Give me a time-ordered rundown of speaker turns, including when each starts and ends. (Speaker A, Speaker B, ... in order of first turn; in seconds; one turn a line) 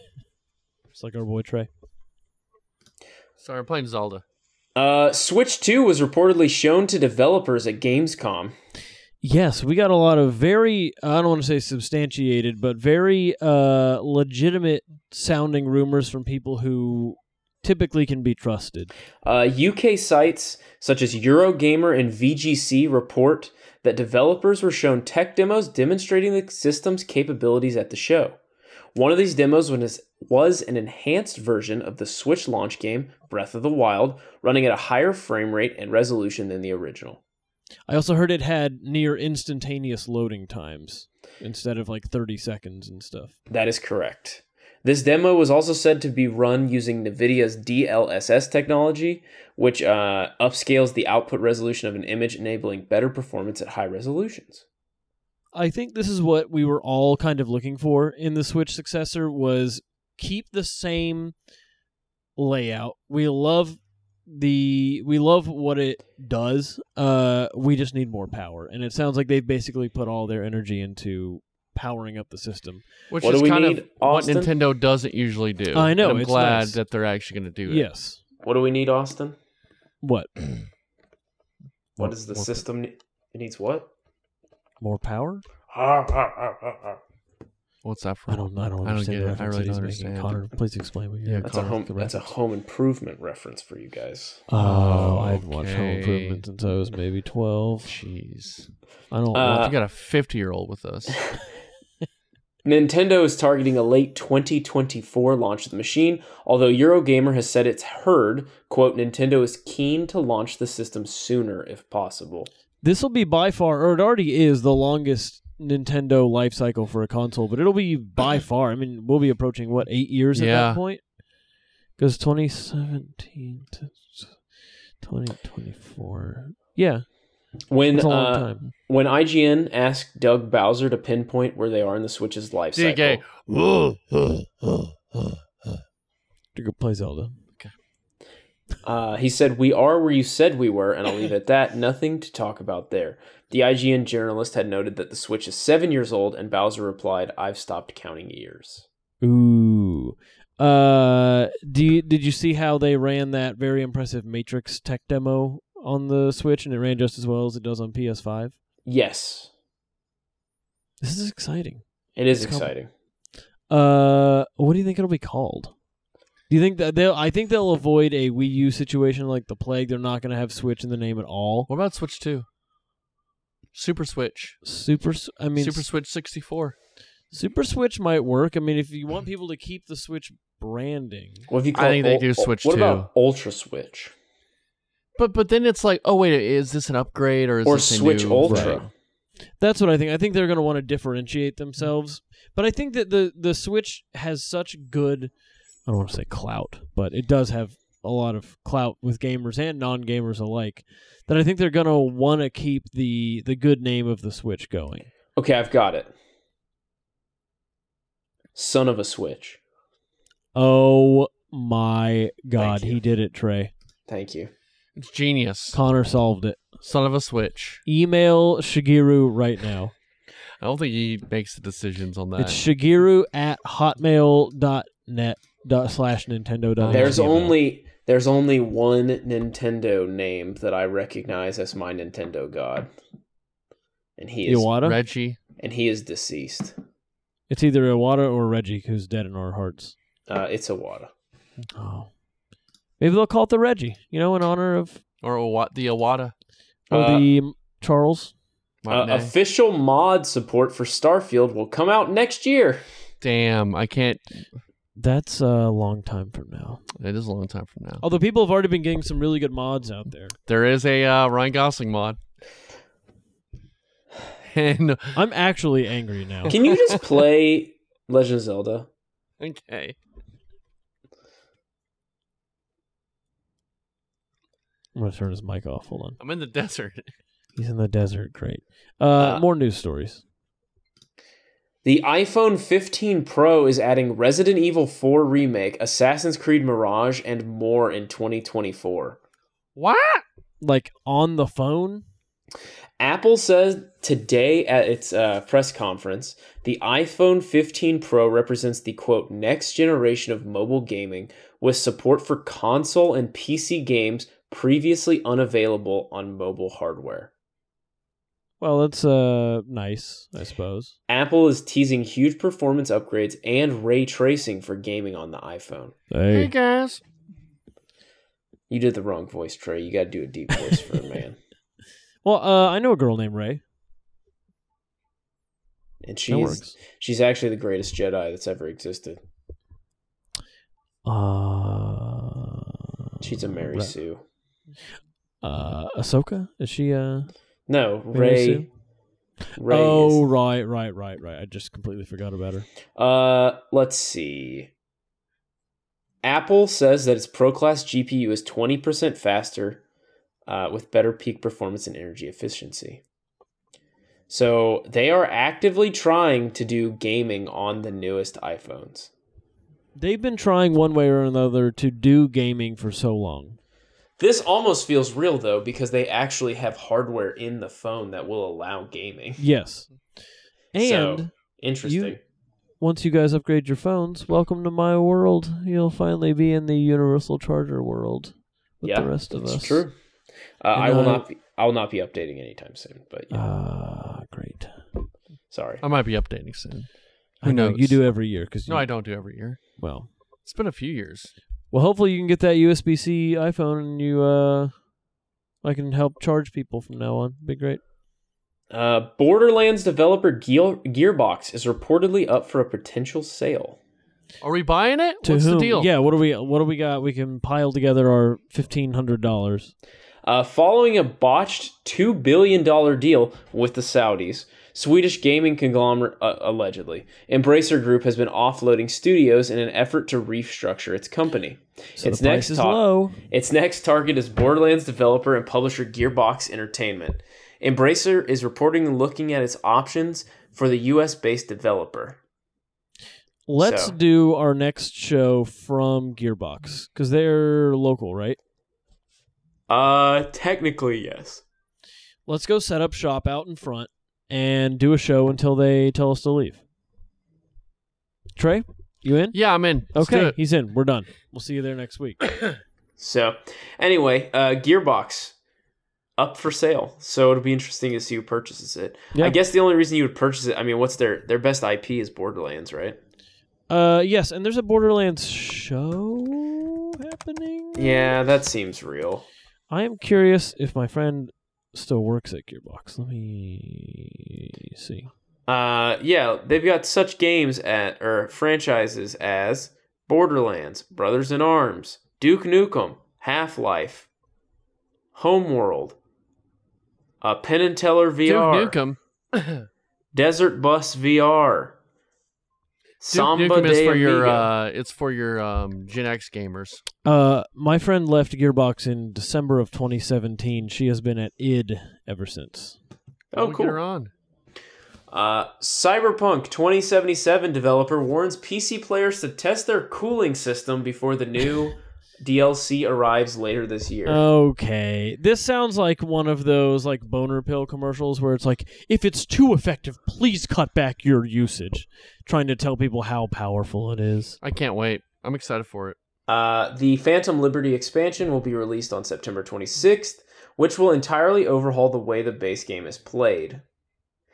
Speaker A: 0.9-1.7
Speaker B: 3.4-4.2
Speaker C: 4.8-8.6
Speaker A: 9.2-18.9
Speaker C: 19.2-28.4
Speaker C: 28.9-37.2
Speaker A: 37.9-43.4
Speaker C: 43.5-54.6
Speaker A: 55.5-61.3
Speaker A: 62.4-72.8
Speaker B: 73.1-77.9
Speaker C: 73.2-74.5
Speaker A: 75.7-76.8
Speaker A: 77.7-78.2
Speaker C: 78.4-79.4
Speaker A: 80.0-80.3
Speaker C: 82.0-83.9
Speaker A: 82.0-82.6
Speaker A: 84.8-85.4
Speaker C: 85.7-87.0
Speaker B: 87.8-90.4
Speaker A: 88.3-92.3
Speaker B: 91.3-91.7
Speaker C: 91.4-94.4
Speaker A: 94.5-97.9
Speaker B: 94.6-96.4
Speaker B: 97.8-98.7
Speaker A: 99.1-99.7
Speaker C: 99.3-99.8
Speaker B: 99.5-101.2
Speaker C: 102.7-112.5
Speaker A: 112.8-121.0
Speaker B: 120.3-120.8
Speaker A: 122.0-124.4
Speaker A: 125.0-127.1
Speaker C: 127.7-133.2
Speaker A: 127.9-128.6
Speaker B: 132.8-135.3
Speaker A: 136.6-137.4
Speaker C: 138.8-148.9
Speaker A: 149.2-158.6
Speaker C: 158.9-159.5
Speaker A: 161.0-162.7
Speaker C: 162.2-162.9
Speaker A: 163.7-165.7
Speaker A: 166.5-171.7
Speaker B: 171.7-172.5
Speaker B: 173.7-174.6
Speaker A: 174.6-175.9
Speaker B: 175.6-176.8
Speaker A: 177.3-181.5
Speaker C: 181.5-184.1
Speaker B: 181.7-183.1
Speaker B: 185.2-188.9
Speaker C: 187.7-188.9
Speaker A: 188.5-188.8
Speaker A: 189.6-195.3
Speaker A: 195.9-205.1
Speaker C: 205.4-206.1
Speaker C: 208.6-209.6
Speaker A: 210.6-213.7
Speaker C: 212.6-213.0
Speaker C: 214.1-214.5
Speaker B: 215.0-215.8
Speaker A: 215.7-216.6
Speaker B: 216.8-217.8
Speaker A: 217.9-219.9
Speaker B: 220.6-222.6
Speaker A: 222.4-227.6
Speaker B: 226.8-227.2
Speaker C: 226.9-232.9
Speaker C: 234.2-234.7
Speaker A: 234.5-235.0
Speaker B: 234.8-235.4
Speaker C: 235.6-236.8
Speaker A: 237.5-239.9
Speaker C: 240.3-241.1
Speaker A: 241.7-242.1
Speaker A: 243.0-245.0
Speaker B: 245.2-246.3
Speaker A: 246.9-248.3
Speaker C: 246.9-247.3
Speaker B: 248.8-249.3
Speaker C: 248.9-252.8
Speaker B: 253.2-254.4
Speaker A: 255.0-256.8
Speaker B: 257.0-258.0
Speaker A: 258.0-260.4
Speaker B: 260.5-262.2
Speaker B: 264.4-265.2
Speaker A: 265.1-266.5
Speaker C: 266.5-268.9
Speaker B: 266.5-267.0
Speaker B: 269.4-270.0
Speaker A: 274.9-276.2
Speaker B: 276.2-277.1
Speaker A: 277.6-280.2
Speaker C: 279.2-279.4
Speaker C: 281.8-289.2
Speaker B: 289.8-290.2
Speaker A: 290.6-292.1
Speaker C: 293.0-307.3
Speaker A: 308.6-310.9
Speaker C: 311.1-315.9
Speaker A: 316.1-316.5
Speaker B: 316.3-317.0
Speaker C: 318.7-321.4
Speaker A: 322.2-323.6
Speaker C: 326.0-329.2
Speaker A: 326.3-326.8
Speaker A: 331.1-333.9
Speaker C: 333.2-334.2
Speaker A: 335.4-337.3
Speaker C: 337.7-338.7
Speaker A: 338.1-338.7
Speaker C: 339.6-340.2
Speaker A: 339.6-342.7
Speaker C: 343.0-344.7
Speaker C: 346.2-349.8
Speaker C: 350.5-353.0
Speaker C: 354.3-359.1
Speaker A: 360.0-363.6
Speaker C: 364.2-369.4
Speaker A: 369.4-369.9
Speaker A: 370.7-371.3
Speaker C: 370.8-372.2
Speaker A: 371.8-372.2
Speaker A: 372.8-379.9
Speaker C: 378.8-379.9
Speaker C: 380.6-383.4
Speaker A: 380.8-381.2
Speaker A: 383.3-384.8
Speaker C: 385.5-385.8
Speaker B: 385.8-386.9
Speaker B: 387.4-388.1
Speaker A: 387.4-388.9
Speaker B: 388.7-389.6
Speaker A: 389.8-390.1
Speaker B: 390.4-391.3
Speaker A: 391.7-394.8
Speaker A: 395.6-397.8
Speaker C: 398.7-403.8
Speaker B: 404.4-405.9
Speaker A: 405.2-409.7
Speaker C: 410.2-432.2
Speaker A: 422.0-423.2
Speaker A: 433.5-438.4
Speaker C: 433.6-434.0
Speaker C: 439.7-441.4
Speaker A: 442.3-446.6
Speaker A: 448.4-449.4
Speaker B: 449.3-450.4
Speaker A: 449.9-452.2
Speaker C: 453.0-455.4
Speaker C: 456.2-463.0
Speaker A: 463.7-468.1
Speaker C: 467.8-469.3
Speaker A: 469.7-475.1
Speaker C: 475.5-484.1
Speaker C: 485.1-486.0
Speaker C: 487.2-488.8
Speaker B: 488.2-489.7
Speaker C: 490.1-491.8
Speaker C: 493.0-494.5
Speaker B: 493.1-496.8
Speaker A: 497.1-502.8
Speaker C: 503.3-503.8
Speaker B: 503.4-504.1
Speaker C: 505.1-514.2
Speaker A: 514.1-524.4
Speaker B: 524.4-526.0
Speaker C: 526.3-533.6